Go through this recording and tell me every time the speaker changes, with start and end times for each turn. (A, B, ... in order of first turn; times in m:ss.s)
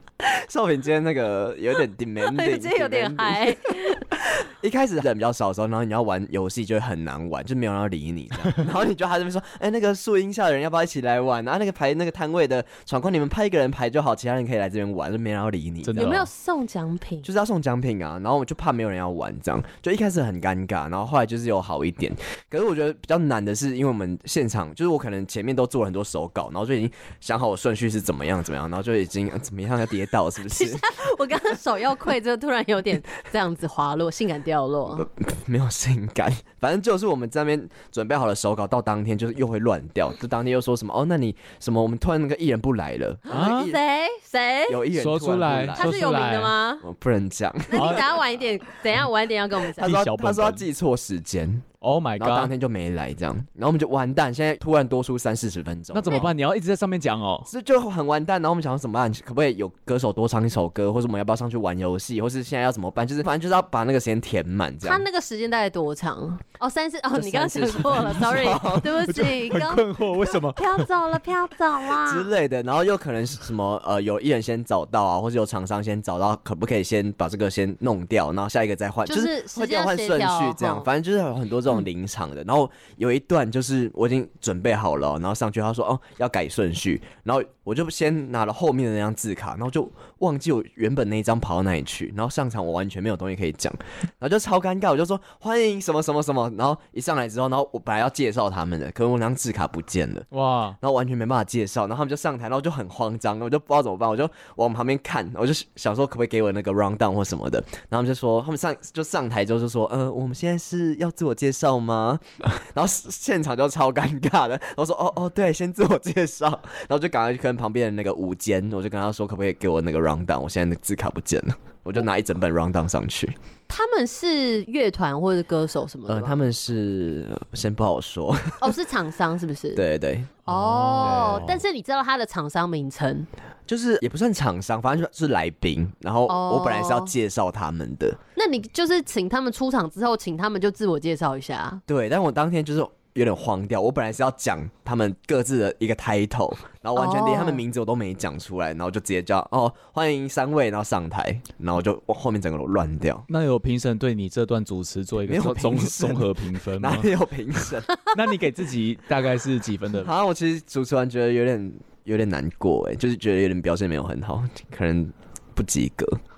0:00.2-0:03.6 A
0:02.2-0:04.0 B
0:04.3-0:16.2 A
0:15.8-0:16.3 C
0:16.0-0:17.3 B
0:17.2-0:30.8 A
0:30.5-0:35.1 B
0:34.9-0:43.8 A
0:43.3-0:44.8 B
0:43.3-0:43.7 C
0:44.7-0:46.0 A
0:45.0-0:46.6 C
0:45.8-0:46.8 B
0:46.8-0:48.2 A
0:47.7-0:50.0 B
0:47.7-0:48.1 C
0:49.8-0:51.7 A
0:49.8-0:50.6 C
0:51.8-0:52.5 C
0:52.2-0:56.3 A
0:55.9-0:57.5 C
0:57.5-1:05.1 A
1:04.8-1:09.9 B
1:07.1-1:09.2 A
1:09.0-1:10.9 C
1:10.5-1:12.3 B
1:12.0-1:40.3 A
1:19.1-1:20.9 B
1:40.3-1:40.8 C
1:40.8-2:03.4 A
2:03.7-2:06.5 B
2:06.1-2:08.8 A
2:08.6-2:09.8 B
2:09.8-2:10.4 A
2:10.5-2:11.6 C
2:10.5-2:13.3 B
2:11.0-2:11.6 A
2:13.7-2:18.2 A
2:16.3-2:17.1 B
2:18.4-2:21.8 B
2:21.9-2:33.3 A
2:27.0-2:27.6 B
2:33.3-2:37.1 C
2:35.2-2:38.0 A
2:38.1-2:40.1 C
2:39.9-2:46.2 A